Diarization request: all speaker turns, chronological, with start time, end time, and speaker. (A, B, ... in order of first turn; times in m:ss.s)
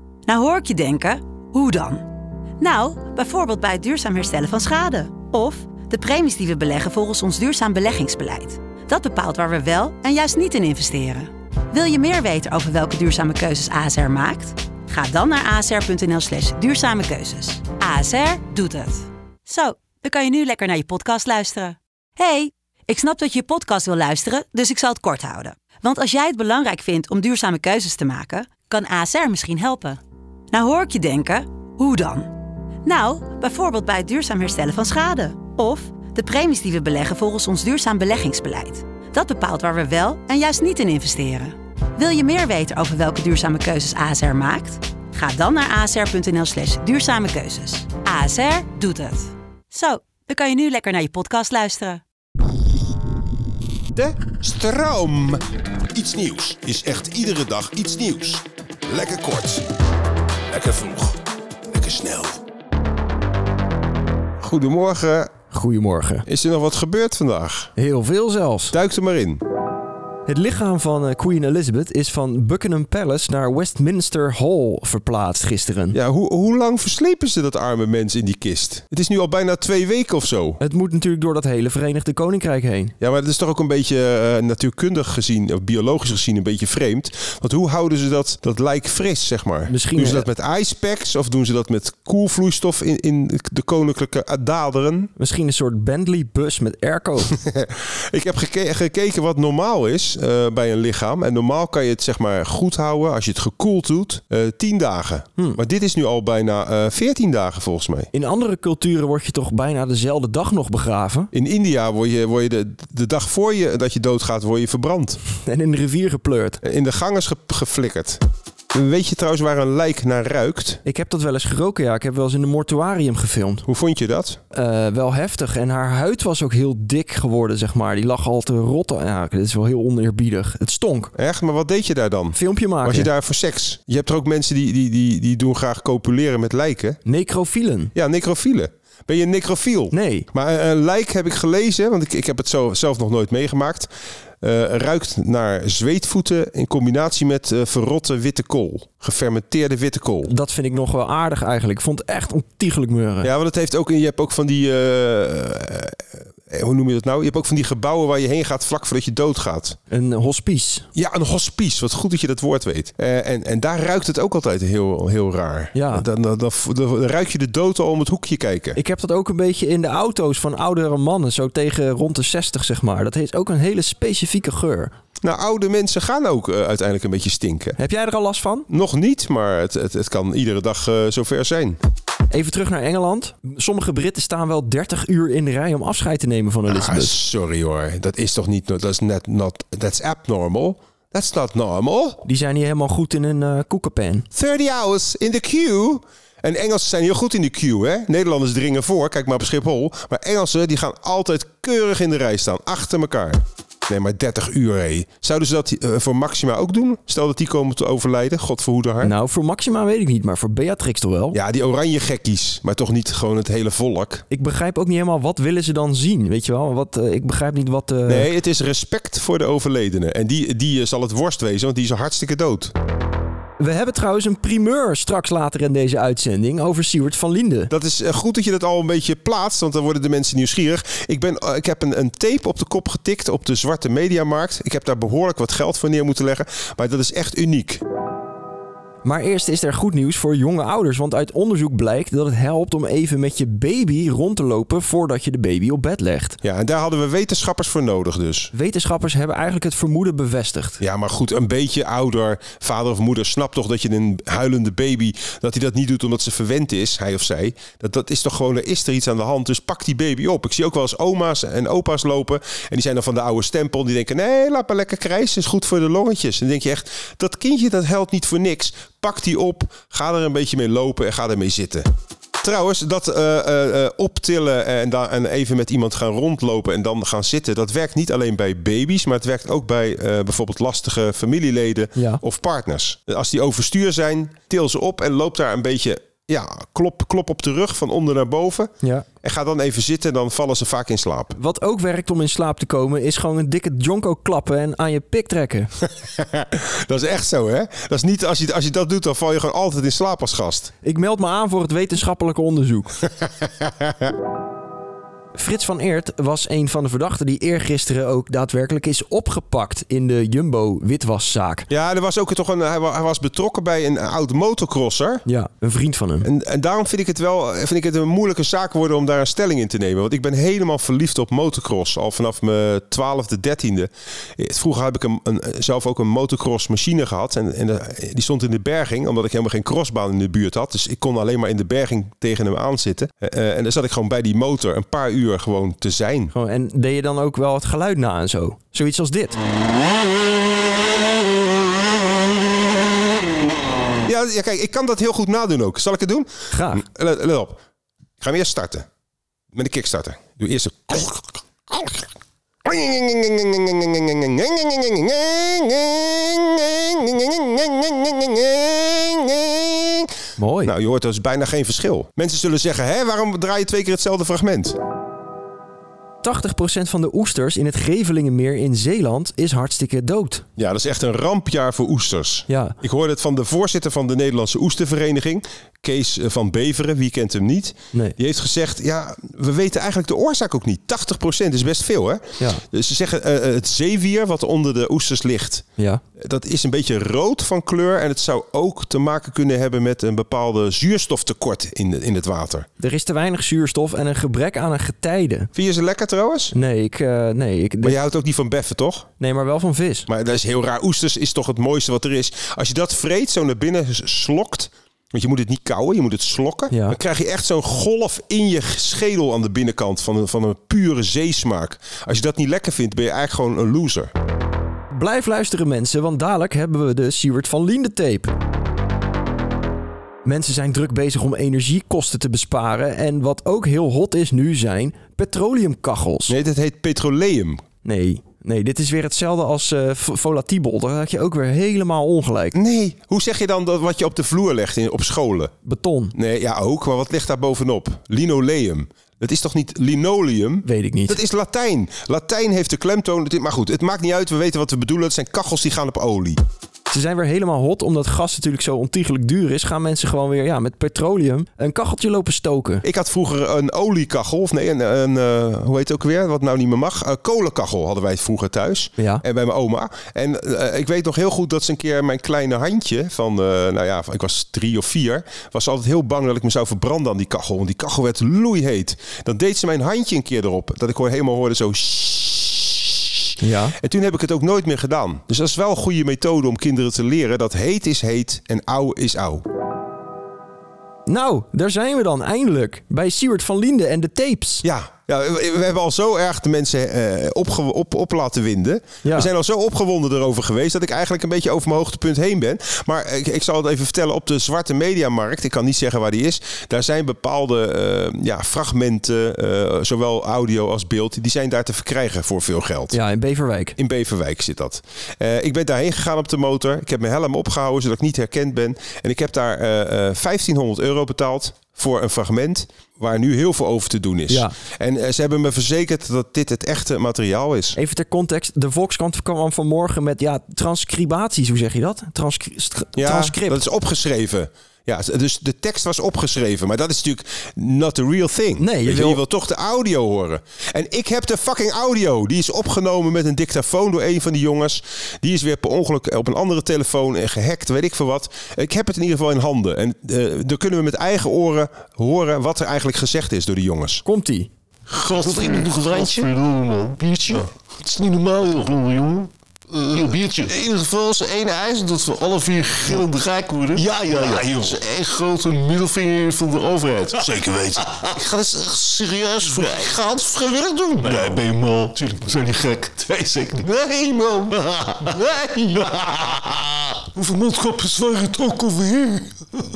0:00.3-0:02.1 A
0:02.6-0:30.0 A
0:30.5-0:52.0 A
0:53.9-0:55.4 B
0:55.9-0:59.7 B
1:00.5-1:01.2 B
1:01.7-1:02.4 B
1:04.4-1:05.3 B
1:05.5-1:06.2 C
1:06.2-1:07.7 B
1:07.8-1:08.7 C
1:08.7-1:09.4 B
1:10.3-1:16.0 C
1:15.9-1:20.6 B
1:20.6-1:22.9 C
1:23.0-1:35.1 B
1:29.7-1:30.3 C
1:35.2-1:37.3 C
1:37.3-1:48.1 B
1:48.1-1:51.3 C
1:51.3-1:55.2 B
1:55.4-1:56.6 C
1:56.6-1:58.2 B
1:58.7-2:00.8 B
2:00.8-2:03.6 C
2:03.6-2:04.4 B
2:04.5-2:11.1 C
2:11.2-2:17.0 B
2:12.3-2:13.1 C
2:17.0-2:17.9 C
2:17.9-2:23.9 B
2:19.9-2:20.3 C
2:24.4-2:30.3 B
2:30.2-2:33.3 C
2:33.2-2:39.8 B
2:39.9-2:40.9 C
2:40.9-2:48.8 B
2:45.7-2:46.0 C
2:48.8-2:54.9 C
2:55.2-2:57.8 B
2:57.8-2:58.7 C
2:58.7-3:01.8 B
3:02.3-3:07.1 C
3:06.7-3:12.2 B
3:12.2-3:14.2 C
3:14.3-3:29.1 B
3:29.0-3:31.4 C
3:31.3-3:34.2 B
3:34.3-3:38.3 C
3:38.1-3:42.7 B
3:43.6-3:47.7 C
3:47.7-3:57.8 B
3:59.0-4:06.4 C
4:06.4-4:08.5 B
4:08.5-4:10.8 C
4:10.8-4:31.9 B
4:32.4-4:48.7 B
4:42.0-4:42.2 C
4:48.8-4:49.1 C
4:49.2-4:51.4 B
4:51.3-4:55.7 C
4:56.0-5:00.7 B
5:00.8-5:03.0 C
5:03.6-5:04.1 B
5:05.3-5:11.7 C
5:11.7-5:15.2 B
5:15.2-5:16.3 C
5:16.2-5:36.3 B
5:36.3-5:39.4 C
5:44.0-5:47.6 B
5:46.5-5:46.8 C
5:48.2-5:48.8 B
5:49.5-5:52.1 B
5:52.6-6:00.1 B
6:00.4-6:00.7 C
6:00.6-6:04.8 B
6:06.2-6:10.4 C
6:10.6-6:25.6 B
6:12.5-6:12.8 C
6:25.8-6:26.0 C
6:26.2-6:32.6 B
6:32.8-6:35.5 C
6:35.5-6:36.5 B
6:36.5-6:38.0 C
6:37.8-6:39.1 B
6:39.2-6:40.1 C
6:40.1-6:54.1 B
6:46.7-6:47.0 C
6:54.9-6:58.3 C
7:00.2-7:06.4 C
7:06.3-7:07.6 B
7:07.8-7:12.5 C
7:12.5-7:15.5 B
7:15.6-7:16.1 C
7:16.1-7:26.4 B
7:20.6-7:21.2 C
7:26.9-7:32.8 C
7:32.8-7:59.4 B
7:39.0-7:39.2 C
7:53.4-7:53.8 C
8:01.0-8:04.6 C
8:04.6-8:23.0 B
8:09.0-8:09.3 C
8:22.9-8:23.8 C
8:23.8-8:37.8 B
8:34.3-8:34.5 C
8:37.8-8:43.6 C
8:43.0-9:04.0 B
8:48.6-8:49.2 C
9:04.0-9:04.5 C
9:04.9-9:29.6 D
9:05.4-9:06.0 B